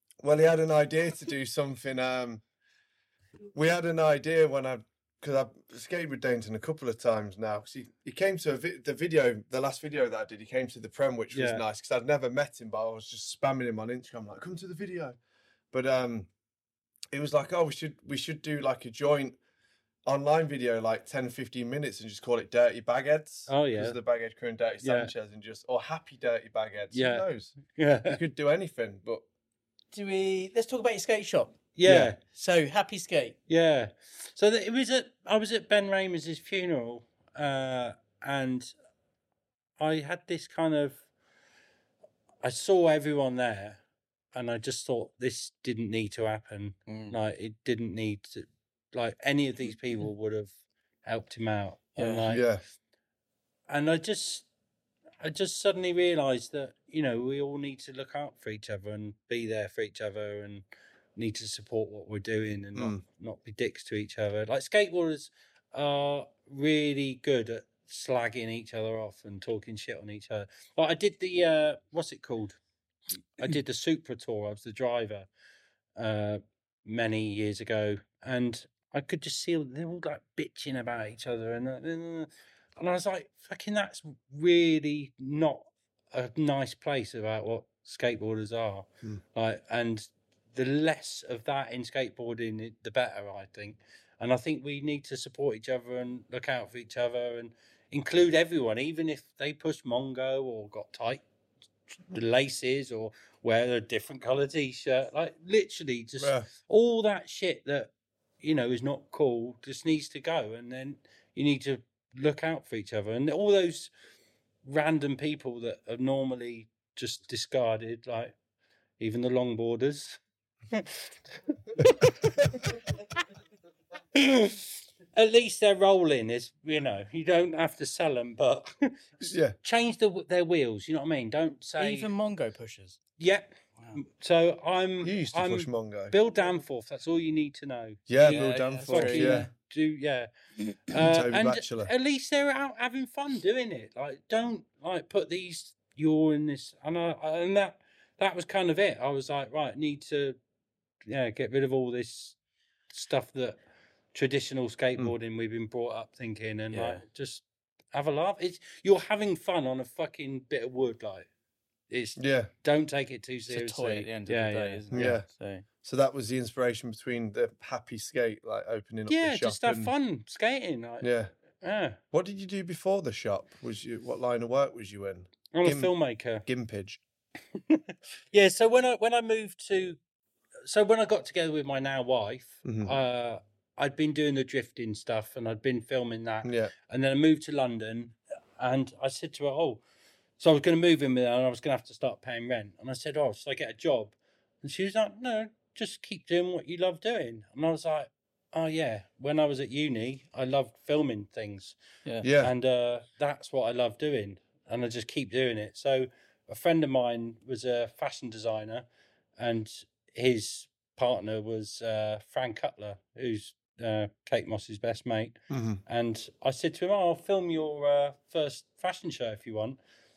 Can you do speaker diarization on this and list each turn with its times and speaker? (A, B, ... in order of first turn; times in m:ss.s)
0:00.2-0:02.4 A
0:03.5-0:15.2 A
0:11.3-0:11.6 B
0:15.7-0:16.3 A
0:17.1-0:19.4 A
0:20.1-0:29.2 A
0:23.5-0:24.0 B
0:24.8-0:25.1 B
0:26.9-0:28.2 B
0:29.9-0:31.6 C
0:31.8-0:32.2 B
0:31.8-0:32.2 A
0:32.3-0:33.4 C
0:33.5-0:38.7 B
0:39.8-0:41.0 B
0:42.4-0:43.8 B
0:44.3-0:50.5 B
0:46.9-0:47.2 C
0:51.0-0:52.4 B
0:52.0-0:52.3 C
0:52.3-0:52.6 A
0:53.7-0:54.5 B
0:55.2-1:00.6 B
1:01.2-1:12.6 B
1:02.8-1:03.0 A
1:13.4-1:15.3 B
1:16.0-1:41.2 B
1:42.1-1:53.9 B
1:46.2-1:46.5 A
1:54.6-1:58.3 B
1:59.0-2:00.2 B
2:00.7-2:01.1 B
2:02.0-2:03.0 B
2:04.1-2:12.1 B
2:09.2-2:09.6 A
2:11.8-2:13.0 C
2:13.2-2:20.3 B
2:15.0-2:16.2 A
2:18.1-2:19.5 A
2:18.3-2:19.5 C
2:20.9-2:30.4 B
2:21.0-2:21.9 A
2:31.1-2:32.4 B
2:32.9-2:33.6 B
2:34.1-2:41.3 B
2:36.7-2:37.0 C
2:41.9-2:45.1 B
2:42.2-2:42.5 A
2:43.5-2:45.6 C
2:44.9-2:45.3 A
2:45.8-2:49.9 A
2:49.1-2:51.1 B
2:51.0-2:51.3 A
2:51.6-2:52.0 B
2:52.1-2:55.9 A
2:55.5-2:56.4 B
2:56.5-2:57.0 A
2:57.7-3:00.0 B
3:00.7-3:09.8 B
3:02.6-3:03.0 A
3:06.4-3:06.7 A
3:10.4-3:21.8 B
3:22.2-3:22.5 A
3:22.4-3:28.9 B
3:29.4-3:35.4 B
3:35.5-3:35.8 A
3:35.9-3:39.8 B